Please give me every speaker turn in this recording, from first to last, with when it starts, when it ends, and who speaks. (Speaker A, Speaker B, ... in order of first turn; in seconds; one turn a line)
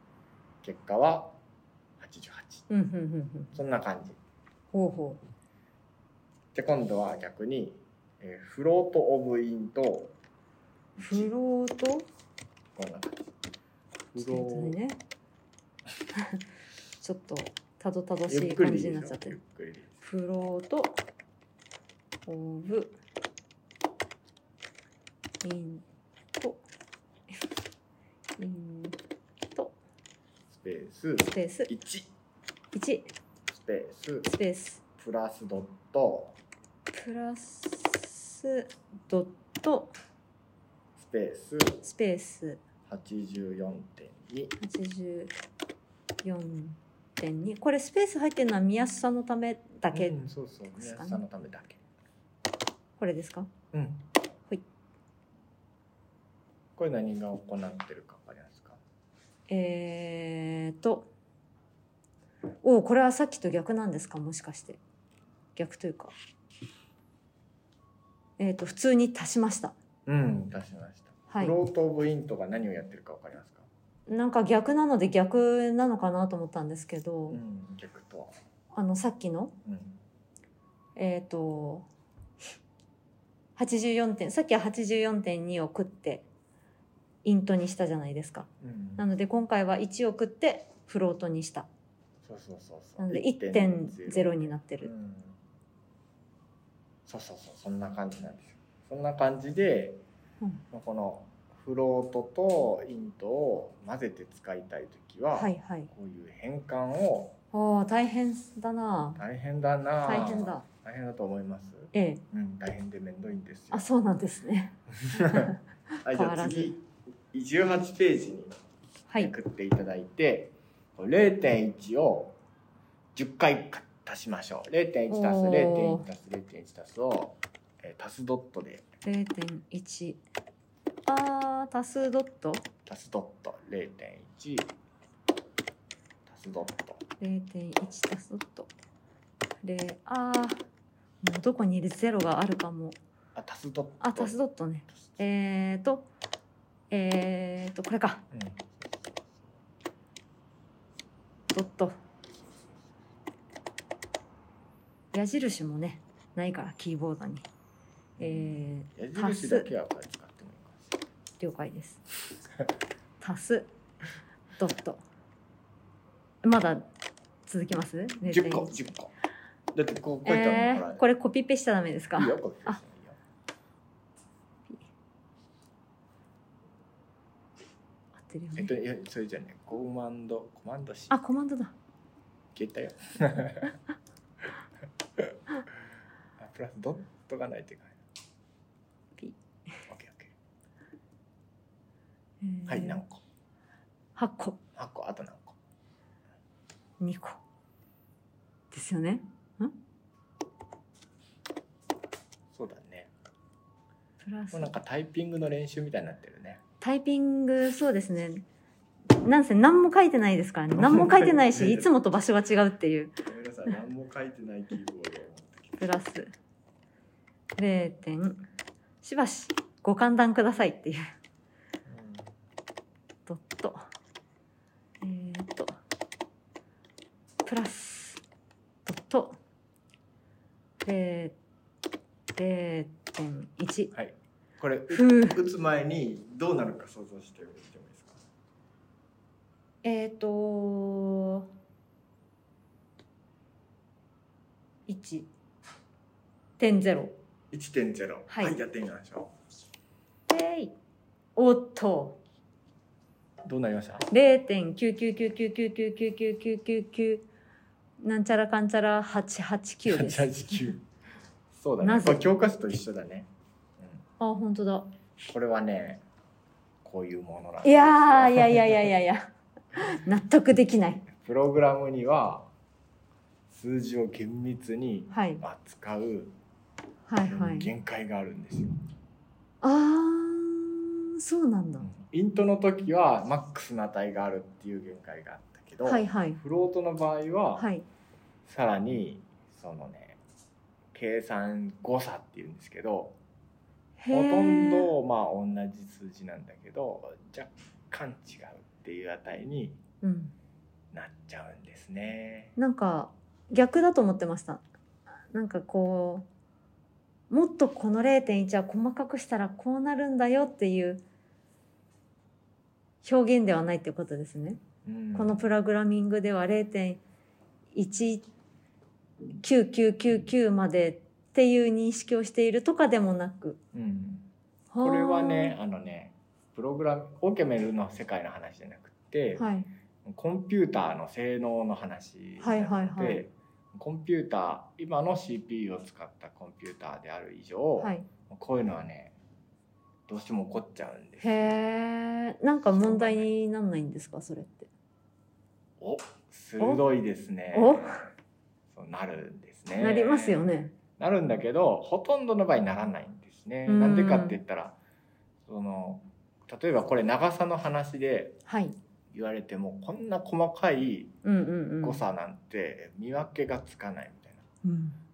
Speaker A: 0.6-1.4
Speaker A: 2.0-2.7
Speaker B: 2.7-3.5
Speaker A: 3.5-4.2
Speaker B: 4.7-5.2
Speaker A: 6.5-10.2
Speaker A: 11.0-11.3
Speaker B: 11.0-12.1
Speaker A: 12.8-13.3
Speaker A: 14.1-14.8
Speaker B: 14.2-15.0
Speaker B: 17.0-19.4
Speaker A: 18.3-19.9
Speaker B: 20.0-21.0
Speaker B: 22.3-22.9
Speaker B: 25.4-25.8
Speaker B: 28.4-29.0
Speaker A: 30.5-32.1
Speaker B: 31.3-31.7
Speaker B: 32.7-33.1
Speaker A: 33.5-34.3
Speaker B: 34.2-34.8
Speaker A: 35.0-36.4
Speaker B: 36.9-39.9
Speaker A: 41.0-41.8
Speaker B: 41.8-42.6
Speaker A: 42.9-44.5
Speaker B: 44.6-45.3
Speaker B: 46.2-50.1
Speaker A: 49.9-51.8
Speaker B: 50.8-51.2
Speaker B: 53.0-53.5
Speaker A: 53.7-54.0
Speaker A: 56.8-58.8
Speaker B: 59.5-61.1
Speaker B: 62.6-64.8
Speaker B: 65.5-66.1
Speaker B: 68.4-69.8
Speaker A: 70.1-73.7
Speaker B: 71.3-71.6
Speaker B: 74.1-77.4
Speaker A: 77.3-78.3
Speaker B: 78.7-79.5
Speaker A: 79.7-80.0
Speaker B: 81.0-81.9
Speaker B: 83.6-86.3
Speaker B: 87.2-91.7
Speaker A: 88.6-89.0
Speaker A: 92.2-95.4
Speaker B: 93.0-94.9
Speaker A: 97.1-100.0
Speaker A: 100.7-107.3
Speaker B: 105.3-105.9
Speaker B: 107.5-109.2
Speaker A: 109.2-113.9
Speaker B: 110.0-110.7
Speaker B: 111.9-112.2
Speaker B: 113.7-116.7
Speaker A: 115.0-118.5
Speaker A: 119.2-122.4
Speaker A: 123.2-128.9
Speaker B: 125.1-126.1
Speaker B: 129.0-130.2
Speaker B: 131.1-132.7
Speaker A: 132.9-134.7
Speaker A: 136.3-137.0
Speaker B: 137.2-138.7
Speaker B: 139.6-140.6
Speaker B: 141.2-143.0
Speaker A: 143.3-144.4
Speaker B: 144.0-146.1
Speaker A: 144.9-145.2
Speaker B: 146.9-148.2
Speaker A: 148.3-149.5
Speaker B: 151.5-152.0
Speaker A: 152.3-152.8
Speaker B: 155.1-157.5
Speaker A: 158.2-161.0
Speaker B: 158.2-159.7
Speaker B: 161.4-162.0
Speaker B: 163.2-163.7
Speaker B: 164.6-165.1
Speaker B: 166.4-166.9
Speaker B: 167.5-168.8
Speaker A: 168.3-169.1
Speaker A: 169.7-171.0
Speaker B: 170.2-172.8
Speaker A: 172.2-173.2
Speaker B: 178.2-178.7
Speaker A: 178.6-181.2
Speaker B: 181.1-181.7
Speaker A: 182.5-183.8
Speaker A: 186.4-188.0
Speaker B: 189.2-189.8
Speaker A: 189.9-190.3
Speaker B: 192.4-193.0
Speaker A: 192.7-193.2
Speaker B: 194.2-194.6
Speaker A: 194.8-195.6
Speaker B: 197.0-197.4
Speaker B: 198.7-199.8
Speaker A: 202.5-203.1
Speaker B: 204.2-204.7
Speaker A: 204.5-206.6
Speaker B: 206.8-208.4
Speaker B: 209.2-213.2
Speaker A: 210.7-211.9
Speaker A: 213.2-215.8
Speaker B: 215.8-216.3
Speaker B: 217.6-218.4
Speaker B: 219.0-221.0
Speaker A: 221.9-222.3
Speaker B: 223.3-223.8
Speaker B: 225.0-225.7
Speaker B: 227.4-228.2
Speaker B: 228.9-229.4
Speaker B: 230.8-231.4
Speaker B: 232.4-233.9
Speaker A: 233.9-238.2
Speaker B: 234.9-235.4
Speaker B: 239.8-241.5
Speaker B: 244.9-245.3
Speaker B: 246.6-247.2
Speaker A: 247.5-249.3
Speaker B: 248.3-248.6
Speaker B: 250.3-250.8
Speaker B: 251.4-252.2
Speaker A: 253.4-254.1
Speaker B: 254.1-257.3
Speaker B: 258.0-260.7
Speaker A: 259.9-260.8
Speaker A: 261.5-264.0
Speaker B: 261.8-262.2
Speaker B: 264.2-264.9
Speaker A: 265.3-266.0
Speaker A: 266.8-268.9
Speaker B: 267.6-271.1
Speaker A: 271.1-272.5
Speaker A: 273.5-276.4
Speaker B: 275.1-275.4
Speaker B: 277.1-277.7
Speaker A: 277.3-278.8
Speaker B: 279.6-281.9
Speaker A: 281.8-287.7
Speaker B: 285.8-286.4
Speaker B: 287.6-287.9
Speaker A: 288.4-290.2
Speaker A: 290.9-293.2
Speaker B: 294.0-294.9
Speaker A: 294.1-299.8
Speaker B: 300.0-300.4
Speaker A: 300.9-302.6
Speaker B: 302.6-304.6
Speaker B: 305.3-306.3
Speaker B: 307.3-311.0
Speaker B: 313.0-314.6
Speaker A: 314.8-315.5
Speaker B: 315.1-317.0
Speaker B: 317.7-318.3
Speaker B: 319.4-323.6
Speaker A: 323.7-324.3
Speaker B: 324.7-325.6
Speaker A: 324.8-329.5
Speaker B: 329.4-329.7
Speaker A: 330.1-339.2
Speaker B: 332.4-333.2
Speaker B: 337.8-338.1
Speaker A: 340.1-341.5
Speaker B: 341.2-344.7
Speaker A: 342.6-343.3
Speaker A: 345.8-348.1
Speaker B: 347.5-348.1
Speaker A: 348.7-354.8
Speaker B: 349.8-350.8
Speaker B: 353.7-354.4
Speaker A: 355.5-358.4
Speaker B: 358.5-358.8
Speaker A: 359.1-361.2
Speaker B: 361.2-362.0
Speaker A: 361.8-364.4
Speaker B: 364.6-365.0